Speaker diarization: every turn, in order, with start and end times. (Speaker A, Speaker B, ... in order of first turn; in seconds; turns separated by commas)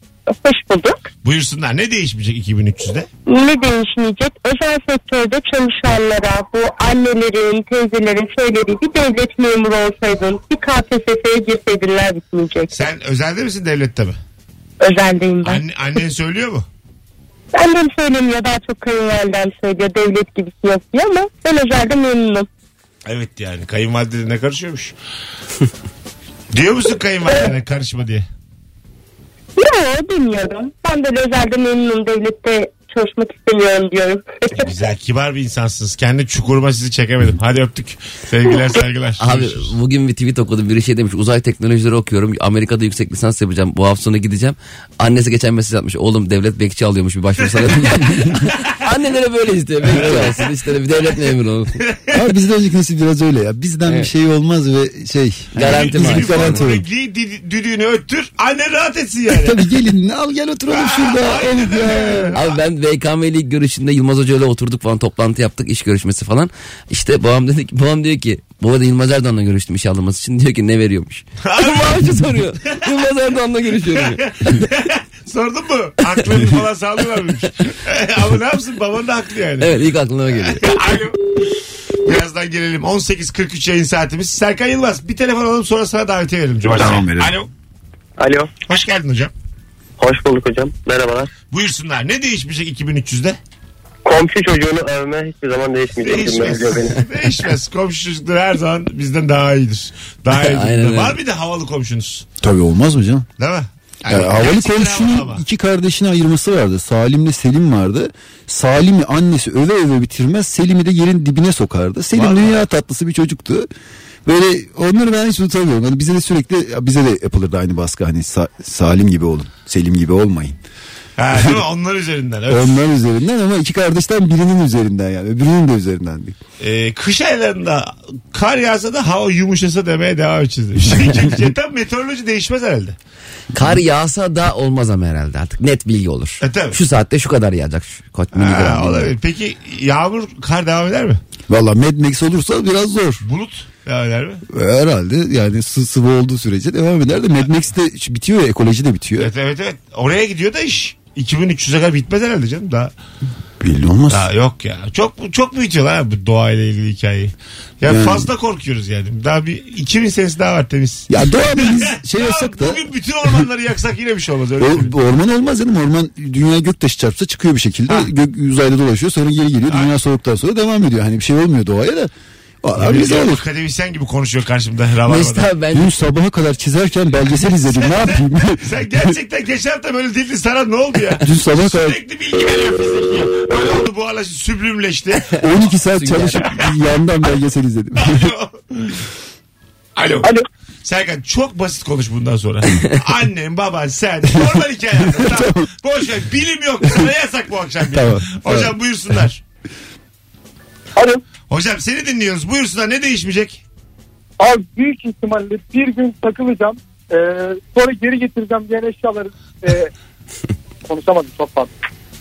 Speaker A: 0.3-1.1, Speaker B: 1.2-3.1, Speaker A: 3.3-12.9, Speaker B: 12.7-14.2, Speaker A: 14.8-15.6, Speaker B: 15.4-16.6, Speaker A: 17.5-22.5, Speaker B: 23.1-24.9, Speaker B: 26.5-28.2, Speaker A: 29.6-34.7, Speaker B: 34.5-39.7, Speaker C: 39.2-51.8, Speaker D: 49.9-50.3, Speaker B: 51.9-52.2, Speaker D: 52.1-56.8, Speaker C: 55.5-56.6, Speaker B: 55.6-59.6, Speaker D: 59.3-62.4, Speaker B: 60.7-62.5, Speaker C: 62.3-74.7, Speaker B: 71.4-72.2, Speaker B: 73.9-79.7, Speaker C: 79.6-80.7, Speaker B: 80.3-81.5, Speaker B: 82.0-87.5, Speaker D: 86.6-87.3, Speaker E: 88.2-88.5, Speaker B: 88.7-89.3, Speaker E: 90.0-91.3, Speaker B: 91.5-93.4, Speaker E: 94.0-97.0, Speaker B: 96.0-102.3, Speaker C: 100.3-101.2, Speaker D: 102.4-103.3, Speaker B: 103.4-105.4, Speaker D: 104.1-113.7, Speaker B: 112.1-112.6, Speaker D: 114.2-120.6, Speaker B: 121.2-122.8, Speaker D: 122.5-126.4, Speaker B: 126.6-132.9, Speaker C: 133.5-139.1, Speaker B: 136.4-136.8, Speaker B: 138.3-141.2, Speaker D: 141.5-143.2, Speaker B: 143.2-144.4, Speaker D: 144.5-149.3, Speaker B: 149.2-152.9, Speaker D: 153.6-154.3, Speaker B: 154.1-164.9, Speaker D: 157.8-158.3, Speaker D: 161.1-162.8, Speaker D: 164.6-172.1, Speaker D: 172.6-173.4, Speaker B: 172.8-175.5, Speaker C: 175.1-175.9, Speaker D: 175.7-178.7, Speaker B: 177.5-185.3, Speaker D: 181.2-182.0, Speaker D: 185.4-188.3, Speaker C: 185.9-186.4, Speaker B: 188.0-189.0, Speaker B: 189.9-190.3, Speaker B: 190.8-199.4, Speaker D: 195.1-195.7, Speaker D: 197.9-198.7, Speaker B: 201.5-203.6, Speaker F: 204.4-209.8, Speaker F: 210.9-211.7